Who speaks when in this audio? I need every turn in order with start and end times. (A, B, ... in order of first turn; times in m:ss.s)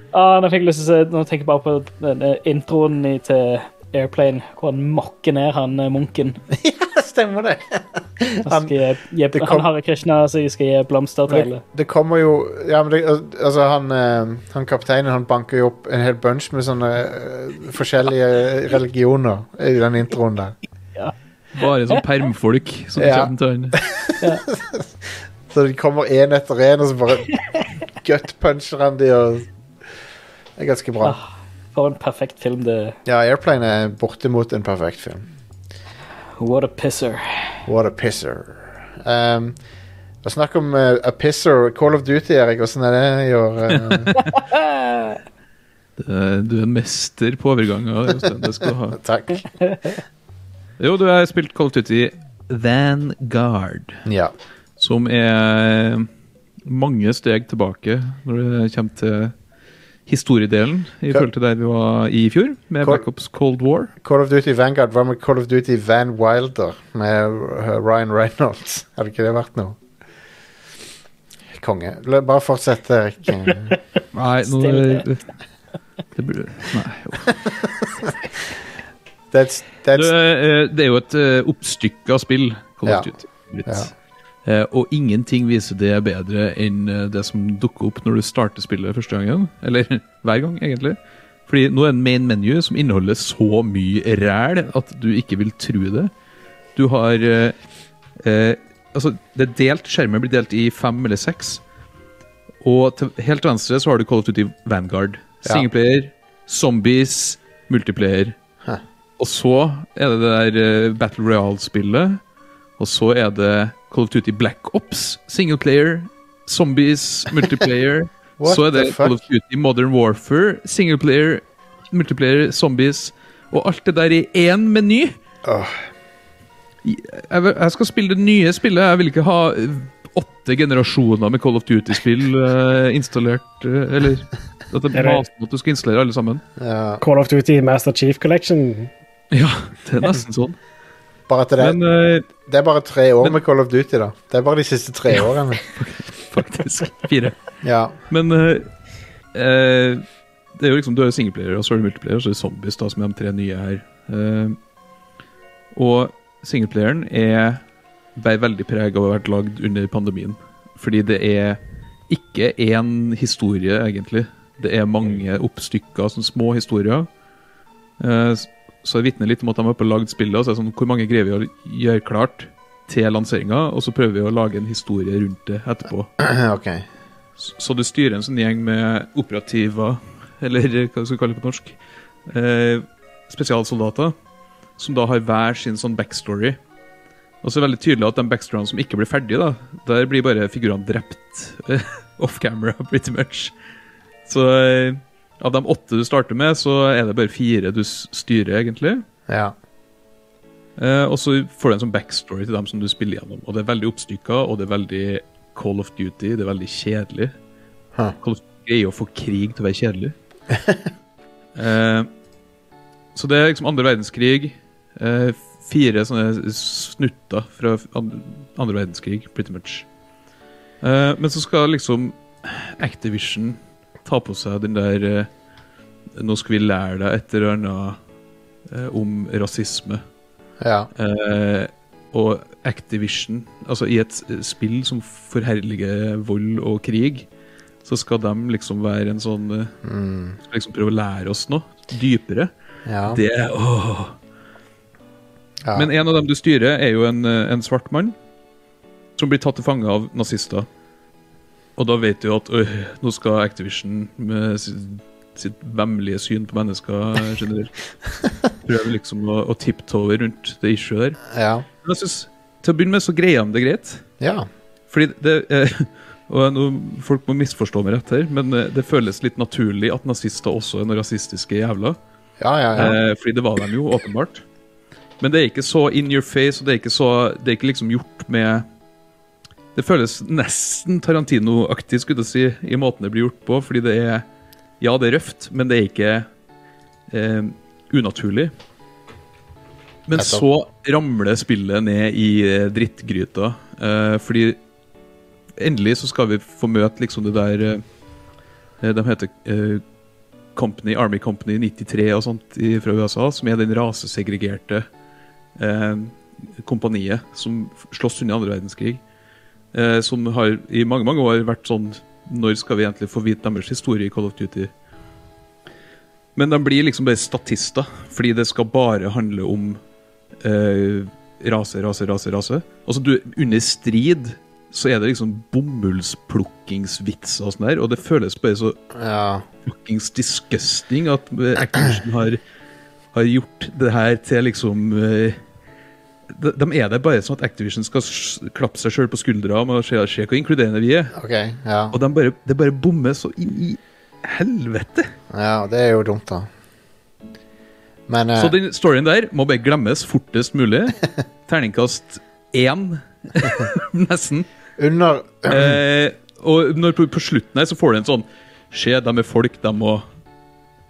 0:00.1-0:06.4 A
0:06.5-0:08.7 B
0:08.4-0:11.6 A
0:09.3-0:09.7 B
0:11.3-0:20.6 B
0:21.6-0:23.8 C
0:23.0-0:24.9 B
0:24.2-0:24.4 A
0:25.5-0:27.4 B
0:28.0-0:29.5 B
0:30.6-0:31.2 B
0:31.0-0:33.0 A
0:33.1-0:35.2 B
0:36.4-0:37.6 A
0:37.7-0:39.6 B
0:40.2-0:44.2 B
0:43.7-0:44.1 C
0:44.2-0:45.2 A
0:46.0-0:49.0 C
0:48.9-0:49.5 B
0:49.7-0:49.9 A
0:50.8-0:54.0 C
0:54.0-0:54.3 B
0:54.8-0:56.1 C
0:56.6-0:59.3 C
1:00.1-1:03.9 C
1:04.0-1:09.8 B
1:11.5-1:13.8 B
1:14.1-1:15.2 C
1:14.6-1:15.0 A
1:16.2-1:17.4 C
1:19.3-1:20.1 B
1:19.9-1:23.9 C
1:23.7-1:23.9 B
1:24.4-1:36.1 C
1:36.8-1:37.6 C
1:38.2-1:41.6 C
1:42.6-1:48.4 C
1:49.2-1:52.2 C
1:52.8-2:05.1 C
1:58.4-1:59.2 B
2:05.4-2:05.8 B
2:06.8-2:16.4 C
2:14.9-2:15.2 D
2:16.6-2:17.0 B
2:17.0-2:18.9 D
2:19.3-2:20.6 C
2:21.3-2:21.8 B
2:21.6-2:22.3 C
2:22.4-2:25.6 B
2:25.7-2:27.4 C
2:27.6-2:28.0 B
2:28.1-2:28.7 C
2:29.3-2:30.0 C
2:30.6-2:34.6 C
2:35.7-2:37.6 C
2:38.2-2:47.1 C
2:48.0-2:56.1 C
2:56.2-2:56.9 B
2:57.4-3:04.1 C
3:04.8-3:06.6 C
3:07.4-3:13.5 C
3:14.2-3:19.0 C
3:19.3-3:19.5 B
3:20.8-3:27.3 C
3:28.2-3:30.2 C
3:30.5-3:30.8 B
3:31.6-3:32.1 C
3:33.2-3:39.9 C
3:40.8-3:45.3 C
3:46.2-3:48.0 C
3:48.7-3:50.0 C
3:50.6-3:50.9 B
3:51.0-3:57.3 C
3:57.8-3:59.8 C
3:59.8-4:00.4 B
4:00.4-4:02.5 C
4:02.9-4:03.2 B
4:03.1-4:04.2 C
4:05.6-4:05.9 B
4:05.7-4:08.2 C
4:09.2-4:10.7 C
4:11.8-4:17.8 C
4:18.5-4:21.3 C
4:21.3-4:21.7 B
4:21.8-4:24.0 C
4:24.2-4:24.5 B
4:24.9-4:32.0 C
4:32.4-4:33.0 B
4:32.8-4:34.4 C
4:35.2-4:38.6 C
4:39.8-4:44.3 C
4:44.8-4:46.3 C
4:47.1-4:48.5 C
4:50.1-4:54.6 C
4:50.2-4:50.4 B
4:55.6-4:57.8 C
4:58.8-4:59.8 C
5:00.6-5:04.9 C
5:05.6-5:09.0 C
5:09.7-5:14.7 C
5:16.4-5:19.8 C
5:20.4-5:28.8 C
5:28.9-5:29.5 B
5:29.7-5:32.4 C
5:33.1-5:35.4 C
5:36.3-5:41.2 C
5:41.1-5:42.0 B
5:41.9-5:45.1 C
5:45.3-5:46.5 B
5:48.1-5:48.5 B
5:48.4-5:54.5 C
5:54.8-5:55.8 B
5:55.5-6:00.0 C